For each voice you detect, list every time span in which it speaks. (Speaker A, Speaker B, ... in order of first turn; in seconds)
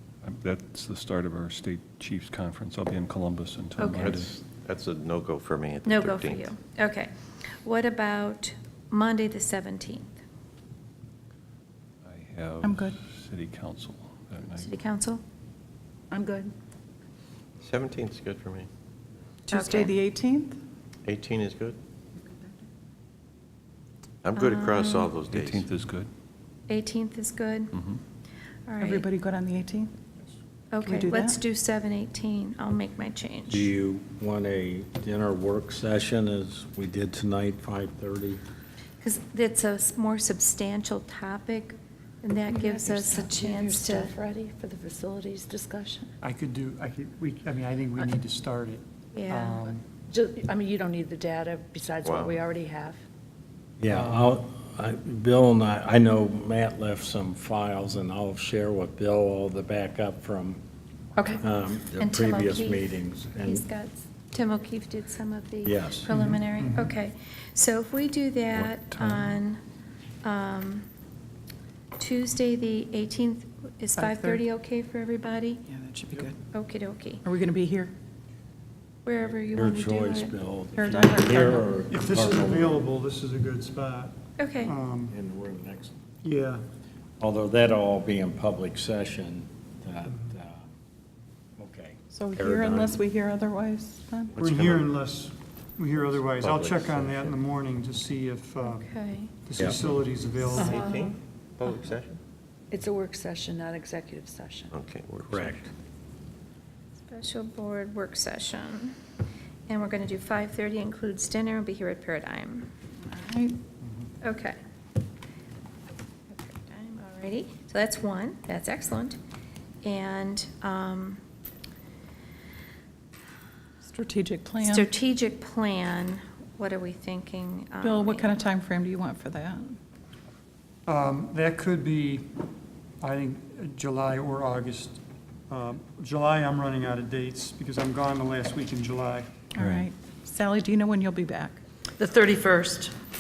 Speaker A: 0.2-4.3, 12.0-14.7, 25.3-26.1, 27.7-28.0, 139.6-139.9
Speaker B: 3.8-4.2, 5.8-7.1, 7.6-10.2, 14.6-15.2, 19.5-19.9, 24.4-25.1, 26.7-27.8, 28.7-29.1, 30.7-33.7, 39.0-44.1, 49.1-49.6, 62.0-62.9, 63.5-69.6, 70.2-70.9, 72.0-75.6, 76.5-77.2, 79.0-80.3, 84.4-84.8, 98.6-99.3, 107.1-109.0, 109.7-112.7, 114.2-114.6, 116.3-119.2, 119.8-121.2, 124.6-128.4
Speaker C: 4.0-6.5, 17.6-18.7, 21.1-21.8, 24.2-25.6, 52.1-52.3, 96.1-97.3, 100.5-102.2, 104.8-105.6
Speaker D: 12.6-13.0, 19.5-20.6, 28.8-29.9, 30.8-31.4, 74.0-74.4, 75.7-76.4, 77.2-77.9, 80.8-81.7, 92.1-94.4, 113.0-113.6, 123.8-124.9, 127.8-129.8, 139.6-141.6
Speaker E: 16.1-16.5, 42.5-46.1, 49.7-53.0, 100.5-101.0, 102.7-104.8, 142.0-143.0
Speaker F: 33.5-38.4, 53.8-60.6, 61.4-63.6, 65.6-66.1, 79.5-82.8, 85.1-86.0, 87.2-90.7, 91.6-93.0, 99.6-100.0, 105.3-105.6
Speaker G: 46.2-49.8, 53.9-54.3, 66.1-66.9, 81.9-85.2, 86.2-86.6, 94.4-100.8, 113.8-114.1, 130.9-132.4, 133.0-139.4